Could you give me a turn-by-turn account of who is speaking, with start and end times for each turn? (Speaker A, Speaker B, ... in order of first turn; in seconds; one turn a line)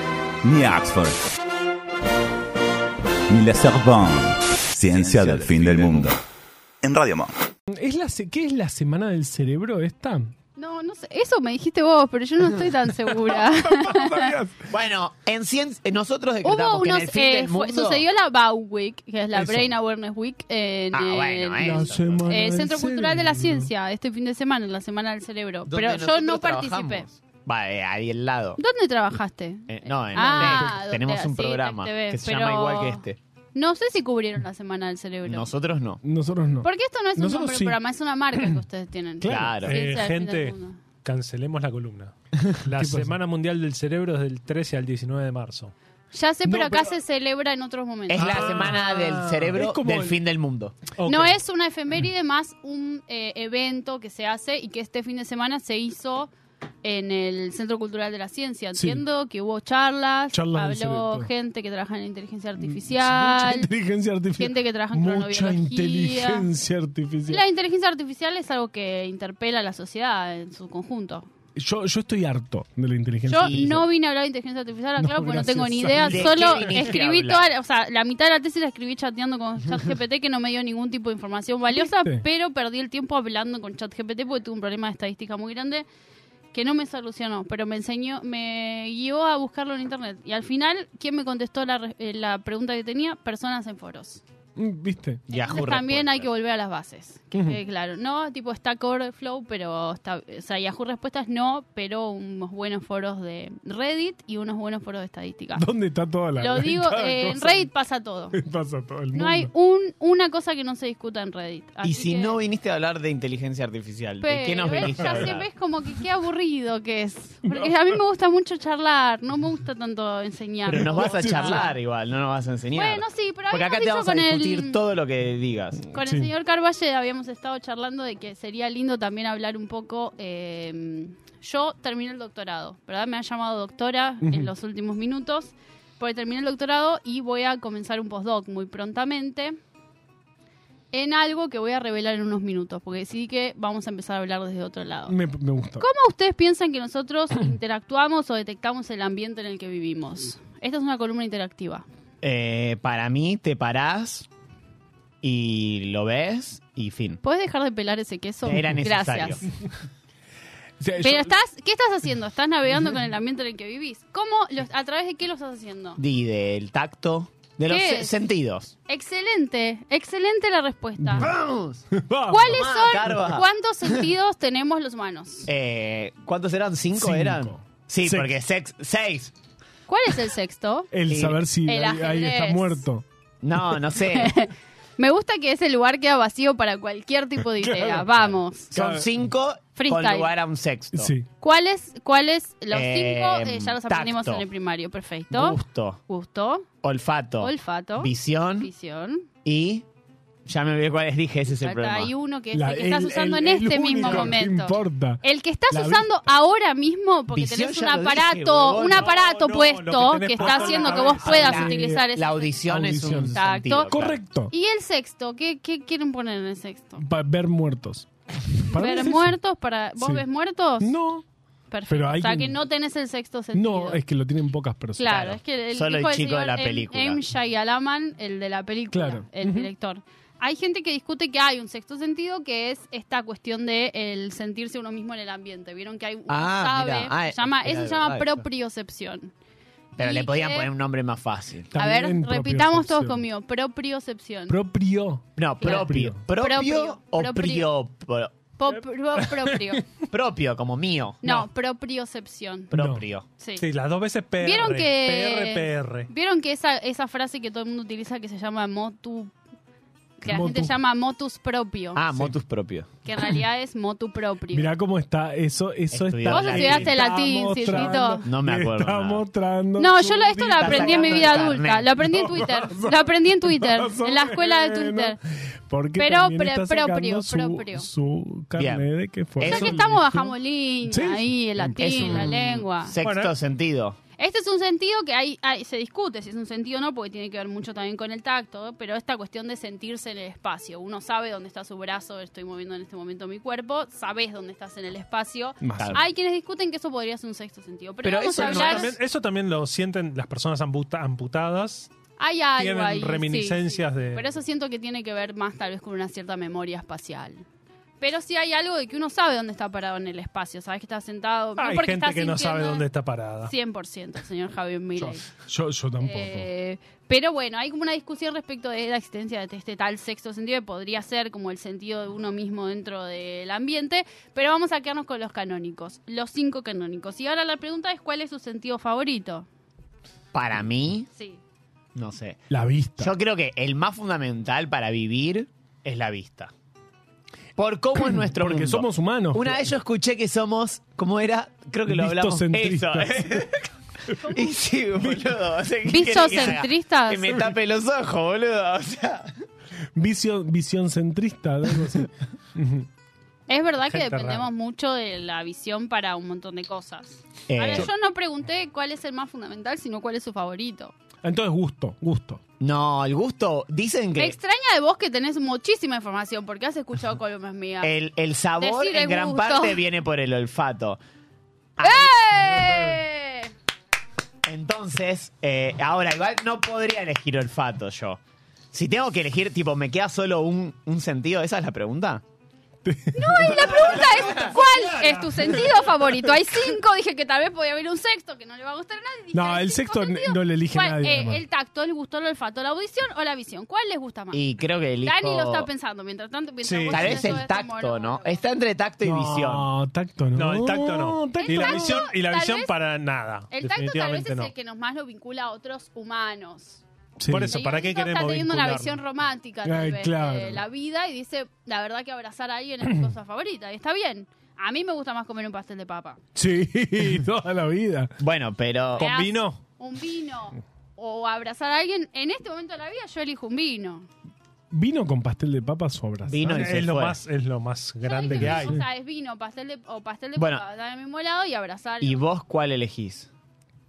Speaker A: 0.4-1.2
Speaker A: 3.3-6.2
Speaker B: 4.9-6.1
Speaker A: 6.8-7.3
Speaker C: 7.7-10.3
Speaker D: 10.6-14.3
Speaker C: 13.1-14.7
Speaker B: 14.7-18.0
Speaker D: 16.4-27.1
Speaker C: 19.3-19.7
Speaker B: 20.9-22.3
Speaker C: 21.6-23.7
Speaker B: 25.6-28.6
Speaker D: 28.6-35.5
Speaker B: 29.7-33.2
Speaker C: 30.2-30.7
Speaker B: 35.2-36.0
Speaker C: 36.0-37.8
Speaker D: 36.6-40.8
Speaker C: 39.2-39.7
Speaker B: 39.2-39.8
Speaker E: 39.6-45.7
Speaker C: 42.7-43.2
Speaker D: 46.1-48.8
Speaker C: 46.5-47.0
Speaker B: 48.1-50.7
Speaker E: 48.1-49.6
Speaker C: 49.5-50.2
Speaker E: 51.0-51.4
Speaker D: 51.0-56.3
Speaker D: 56.8-63.7
Speaker C: 58.7-59.0
Speaker C: 60.3-61.3
Speaker C: 62.6-67.4
Speaker D: 64.4-66.5
Speaker D: 67.3-71.3
Speaker C: 71.5-73.8
Speaker D: 73.3-85.8
Speaker B: 73.4-73.8
Speaker C: 75.0-76.7
Speaker B: 76.0-77.5
Speaker C: 81.7-82.2
Speaker D: 86.5-94.2
Speaker C: 94.5-95.3
Speaker B: 95.3-96.3
Speaker D: 95.3-105.7
Speaker C: 97.3-97.6
Speaker C: 105.5-107.7
Speaker D: 106.4-108.4
Speaker C: 108.3-109.5
Speaker D: 109.1-112.4
Speaker B: 111.8-115.5
Speaker D: 114.2-121.7
Speaker C: 117.5-117.9
Speaker B: 120.7-125.8
Speaker C: 120.7-121.6
Speaker D: 122.7-124.8
Speaker C: 125.8-126.3
Speaker D: 125.9-139.6
Speaker C: 134.2-134.5
Speaker D: 140.9-145.2
Speaker C: 145.1-145.9
Speaker D: 145.8-151.8
Speaker B: 152.2-154.3
Speaker B: 155.2-157.2
Speaker D: 157.2-159.4
Speaker B: 158.4-159.5
Speaker C: 160.8-161.3
Speaker D: 161.0-166.0
Speaker B: 166.0-168.7
Speaker D: 167.7-168.1
Speaker D: 168.9-171.3
Speaker C: 171.0-171.3
Speaker B: 171.1-171.8
Speaker C: 171.9-172.6
Speaker D: 172.3-175.5
Speaker B: 172.4-174.1
Speaker B: 175.4-179.3
Speaker C: 176.9-178.3
Speaker D: 179.9-180.9
Speaker C: 180.9-183.0
Speaker B: 181.1-181.4
Speaker D: 181.6-182.8
Speaker B: 183.4-184.3
Speaker D: 184.0-188.7
Speaker C: 187.5-189.1
Speaker B: 188.7-191.1
Speaker D: 189.7-190.3
Speaker C: 190.9-191.3
Speaker D: 191.4-196.7
Speaker B: 192.7-194.4
Speaker B: 195.3-196.0
Speaker B: 196.8-198.7
Speaker D: 197.4-199.3
Speaker B: 199.4-199.8
Speaker B: 200.4-202.1
Speaker D: 201.5-212.6
Speaker C: 202.5-206.2
Speaker B: 207.3-209.1
Speaker E: 208.8-211.4
Speaker C: 210.4-212.1
Speaker B: 210.4-214.2
Speaker C: 212.6-214.5
Speaker D: 213.3-213.9
Speaker D: 214.5-217.0
Speaker C: 217.0-219.4
Speaker D: 218.7-221.0
Speaker C: 220.0-220.2
Speaker C: 220.8-221.2
Speaker D: 221.7-224.0
Speaker C: 221.9-222.6
Speaker C: 223.5-225.3
Speaker D: 225.0-239.3
Speaker B: 225.1-227.2
Speaker C: 228.9-229.7
Speaker B: 236.3-238.4
Speaker D: 240.0-240.7
Speaker B: 240.0-241.7
Speaker C: 241.7-243.2
Speaker D: 241.8-244.6
Speaker C: 244.5-246.2
Speaker B: 245.4-248.4
Speaker D: 245.6-247.7
Speaker D: 248.6-249.8
Speaker C: 249.2-249.8
Speaker B: 250.1-251.4
Speaker D: 251.2-252.7
Speaker B: 252.7-253.2
Speaker C: 252.7-253.1
Speaker D: 253.4-253.7
Speaker E: 253.6-256.1
Speaker D: 254.4-259.3
Speaker D: 260.2-262.0
Speaker C: 260.2-260.8
Speaker B: 261.9-262.9
Speaker D: 263.0-264.7
Speaker C: 264.5-282.6
Speaker B: 265.9-267.0
Speaker D: 266.2-268.2
Speaker B: 267.6-269.2
Speaker D: 269.8-275.2
Speaker B: 270.6-271.9
Speaker D: 276.0-277.9
Speaker B: 278.6-278.9
Speaker B: 279.4-279.9
Speaker D: 279.4-282.9
Speaker B: 281.8-284.0
Speaker E: 283.0-283.4
Speaker D: 284.2-298.9
Speaker C: 295.6-296.0
Speaker B: 295.8-296.0
Speaker C: 298.0-298.9
Speaker E: 298.1-301.9
Speaker D: 302.2-307.4
Speaker E: 302.6-304.3
Speaker D: 308.0-312.9
Speaker E: 311.6-313.5
Speaker D: 313.4-315.3
Speaker C: 315.0-316.5
Speaker D: 316.0-329.5
Speaker B: 330.3-331.1
Speaker D: 331.1-331.4
Speaker B: 331.9-332.4
Speaker C: 332.5-333.1
Speaker B: 333.0-336.5
Speaker B: 337.6-349.4
Speaker C: 338.0-339.7
Speaker C: 341.9-343.5
Speaker D: 344.1-344.7
Speaker C: 345.0-345.3
Speaker D: 345.9-347.4
Speaker C: 349.9-352.9
Speaker D: 353.5-360.9
Speaker E: 353.9-354.5
Speaker B: 357.5-357.9
Speaker C: 361.2-362.4
Speaker B: 362.6-364.4
Speaker D: 364.2-367.9
Speaker B: 367.8-371.0
Speaker D: 368.6-369.8
Speaker B: 371.8-372.6
Speaker D: 371.8-373.5
Speaker B: 374.4-378.2
Speaker B: 378.7-382.2
Speaker C: 382.8-383.9
Speaker D: 383.1-394.4
Speaker B: 383.3-385.0
Speaker E: 385.0-385.4
Speaker C: 389.3-391.4
Speaker B: 394.3-395.7
Speaker D: 395.0-398.4
Speaker E: 396.6-397.4
Speaker B: 396.9-399.7
Speaker C: 399.0-402.0
Speaker E: 400.3-404.5
Speaker D: 401.3-402.7
Speaker D: 403.5-406.8
Speaker C: 407.2-407.6
Speaker E: 407.2-409.0
Speaker D: 407.5-416.2
Speaker C: 409.6-410.6
Speaker C: 412.9-413.1
Speaker C: 416.3-418.1
Speaker B: 418.2-419.1
Speaker E: 418.9-419.6
Speaker D: 419.0-424.1
Speaker C: 424.7-426.9
Speaker B: 426.2-427.2
Speaker E: 426.5-428.8
Speaker D: 428.0-432.2
Speaker C: 428.3-428.8
Speaker B: 430.4-430.6
Speaker B: 432.0-433.3